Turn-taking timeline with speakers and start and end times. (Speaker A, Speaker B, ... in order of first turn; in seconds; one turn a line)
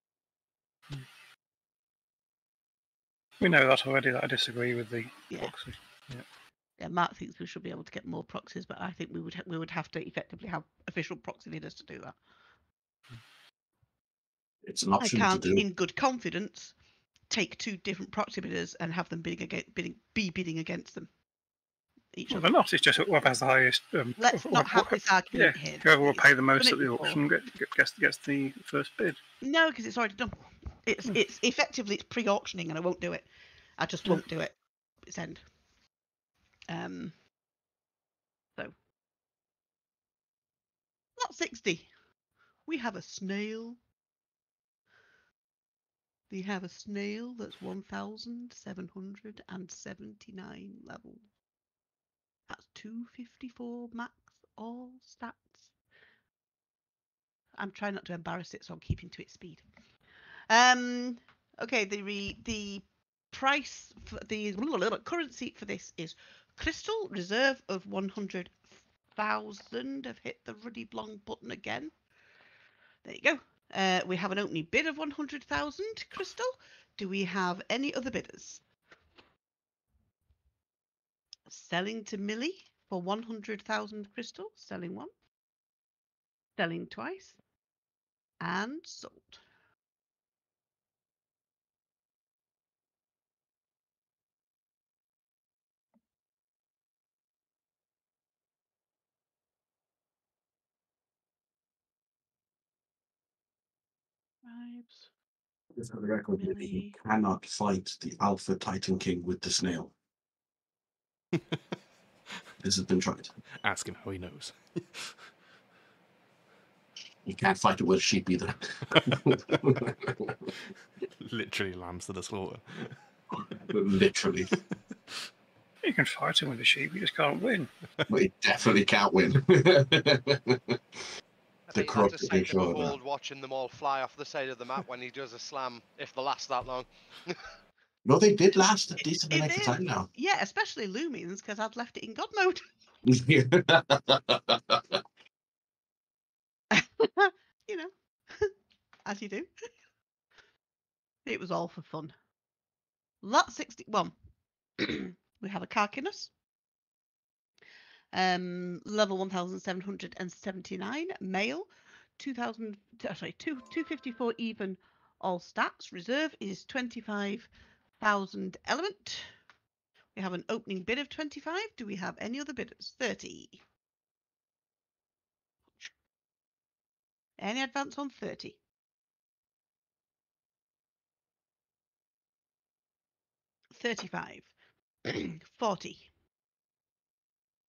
Speaker A: 3.4-6.2
Speaker B: 5.3-5.5
Speaker B: 6.8-12.2
Speaker C: 14.6-15.7
Speaker B: 15.0-16.8
Speaker B: 17.3-21.1
Speaker B: 22.1-22.5
Speaker A: 22.3-29.2
Speaker B: 24.2-27.2
Speaker B: 29.4-35.4
Speaker B: 36.7-37.1
Speaker B: 41.2-41.9
Speaker B: 42.6-43.8
Speaker B: 46.3-51.2
Speaker B: 52.5-55.7
Speaker B: 57.6-59.6
Speaker B: 60.5-71.9
Speaker B: 73.0-78.6
Speaker B: 81.5-85.1
Speaker B: 86.6-87.4
Speaker B: 88.4-89.4
Speaker B: 104.4-105.1
Speaker C: 105.8-109.9
Speaker B: 106.4-107.0
Speaker C: 112.6-113.3
Speaker D: 113.6-115.2
Speaker C: 117.2-120.4
Speaker D: 121.2-123.0
Speaker C: 123.5-124.5
Speaker A: 125.8-127.7
Speaker C: 128.1-130.8
Speaker E: 131.7-137.4
Speaker C: 131.7-132.9
Speaker C: 138.0-140.1
Speaker B: 139.3-142.7
Speaker C: 143.0-145.0
Speaker B: 146.7-148.5
Speaker B: 149.1-149.5
Speaker B: 151.2-152.1
Speaker B: 153.2-154.1
Speaker B: 154.8-156.3
Speaker B: 158.1-169.3
Speaker B: 170.1-173.6
Speaker B: 177.4-178.6
Speaker B: 183.7-184.6
Speaker B: 185.1-186.1